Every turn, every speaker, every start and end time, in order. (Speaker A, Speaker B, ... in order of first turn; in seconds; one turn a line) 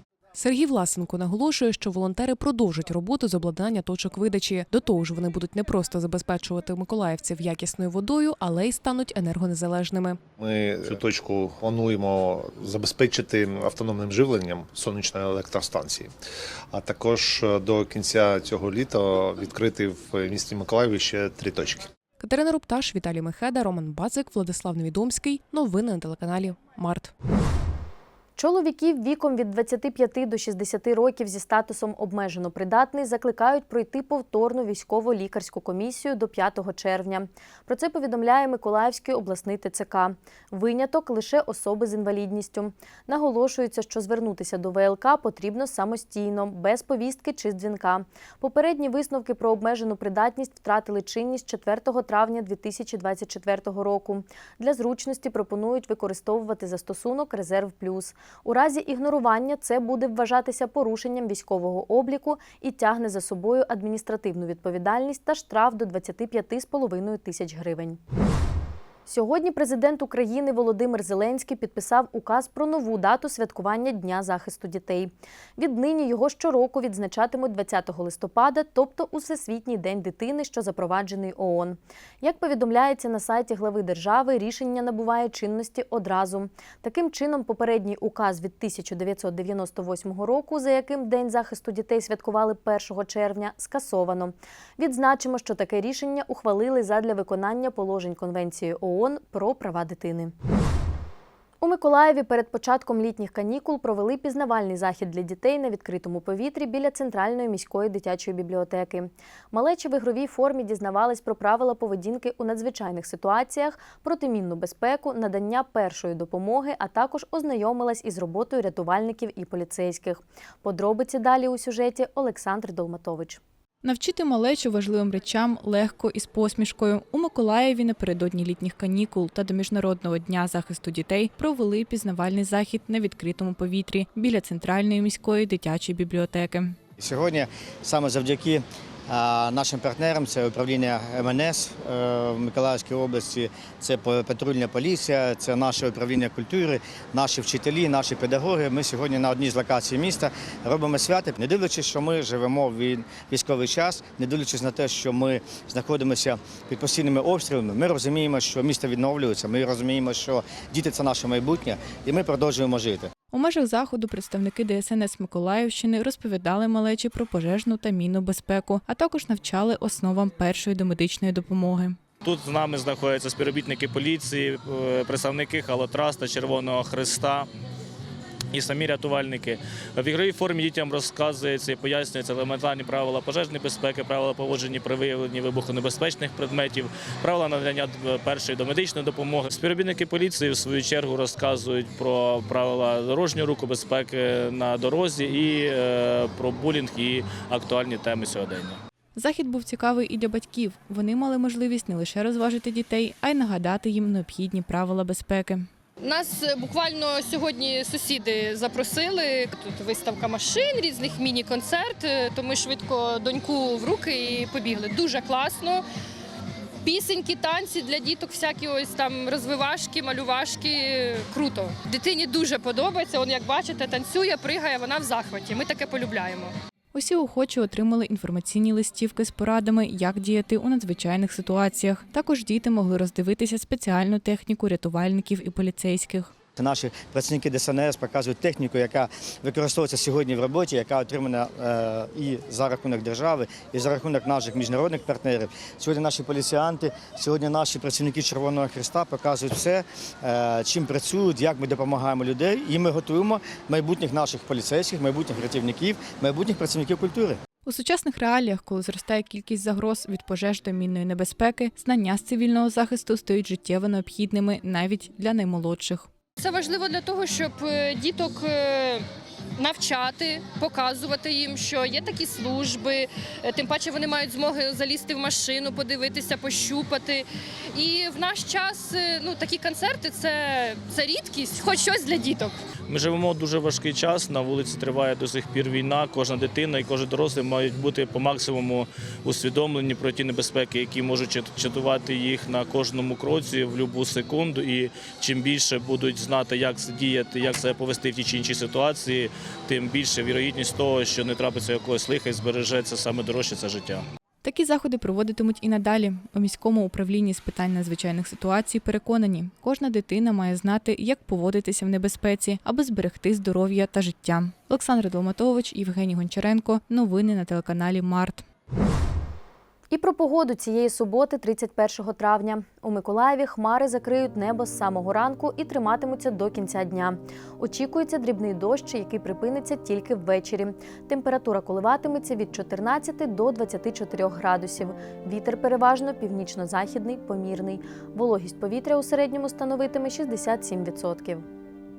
Speaker A: 0.3-10.2
Speaker B: 10.4-16.1
Speaker B: 16.7-21.9
Speaker A: 22.2-27.1
Speaker C: 28.4-68.0
Speaker C: 69.1-100.3
Speaker C: 101.6-123.4
Speaker D: 123.8-136.8
Speaker E: 137.0-163.1
Speaker D: 163.3-172.0
Speaker F: 172.2-177.5
Speaker F: 178.5-198.8
Speaker D: 199.1-205.7
Speaker G: 206.0-215.8
Speaker G: 216.8-226.5
Speaker D: 226.9-236.3
Speaker E: 236.6-257.4
Speaker D: 257.6-266.1
Speaker G: 266.4-269.0
Speaker G: 269.6-282.6
Speaker F: 282.9-304.0
Speaker D: 304.4-318.4
Speaker C: 319.9-341.4